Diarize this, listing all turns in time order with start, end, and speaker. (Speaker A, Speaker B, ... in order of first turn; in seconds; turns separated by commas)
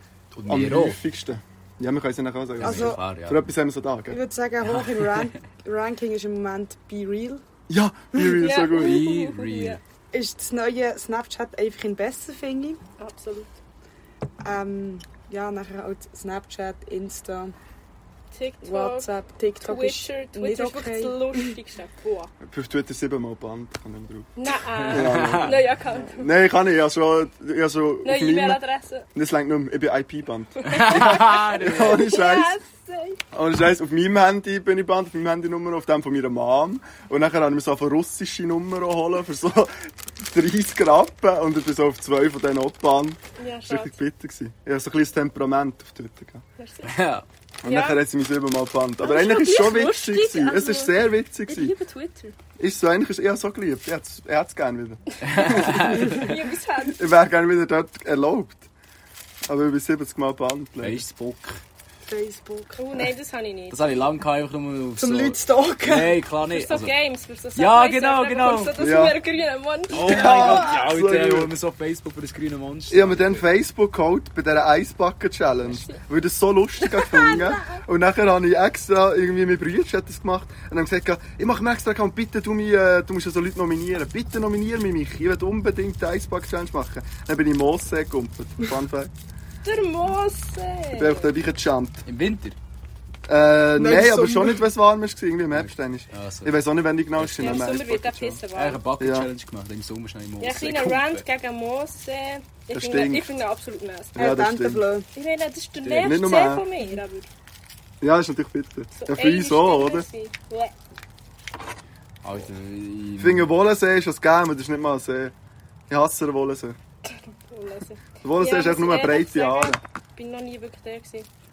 Speaker A: 0.3-1.0, Speaker B: 0.5-4.2, Speaker A: 2.6-3.5, Speaker C: 2.6-3.0, Speaker C: 4.1-7.4, Speaker A: 4.7-5.3, Speaker B: 7.7-9.1, Speaker D: 8.3-9.8, Speaker A: 8.7-9.8, Speaker C: 10.1-12.8, Speaker D: 13.0-13.5, Speaker C: 14.4-17.5, Speaker D: 18.3-19.1, Speaker C: 18.6-21.5, Speaker D: 19.6-22.3, Speaker B: 22.4-24.3, Speaker D: 24.4-26.3, Speaker A: 24.7-25.6, Speaker B: 24.9-28.6, Speaker D: 28.0-29.1, Speaker B: 29.1-32.6, Speaker D: 30.6-33.2, Speaker A: 30.7-32.1, Speaker B: 33.3-46.4, Speaker D: 43.4-43.9, Speaker D: 46.6-46.9, Speaker A: 46.8-47.2, Speaker B: 47.6-51.7, Speaker D: 47.6-48.0, Speaker D: 49.0-52.3, Speaker B: 52.6-56.2, Speaker A: 55.2-56.3, Speaker D: 55.5-57.1, Speaker B: 56.9-58.7, Speaker B: 59.5-61.0, Speaker A: 60.8-61.6, Speaker C: 62.1-62.8, Speaker D: 62.8-64.0, Speaker A: 63.7-66.9, Speaker C: 65.0-66.2, Speaker D: 66.5-70.6, Speaker A: 67.5-68.8, Speaker B: 68.8-69.2, Speaker A: 69.9-73.4, Speaker B: 69.9-71.5, Speaker B: 72.9-89.1, Speaker D: 75.6-76.0, Speaker D: 76.8-77.8, Speaker D: 89.6-91.3, Speaker B: 90.9-92.0, Speaker A: 92.0-92.6, Speaker B: 93.3-98.4, Speaker C: 93.8-94.7, Speaker A: 95.5-96.6, Speaker A: 97.1-97.7, Speaker D: 97.4-98.8, Speaker A: 98.5-101.2, Speaker B: 99.0-99.3, Speaker D: 100.4-104.2, Speaker B: 102.7-103.4, Speaker B: 104.1-104.8, Speaker C: 104.2-105.1, Speaker D: 105.2-107.3, Speaker A: 105.8-106.2, Speaker B: 106.0-106.7, Speaker B: 108.0-110.0, Speaker D: 109.0-110.7, Speaker A: 112.2-113.5, Speaker B: 113.2-115.3, Speaker B: 115.9-116.8, Speaker D: 117.0-121.3, Speaker B: 118.2-119.8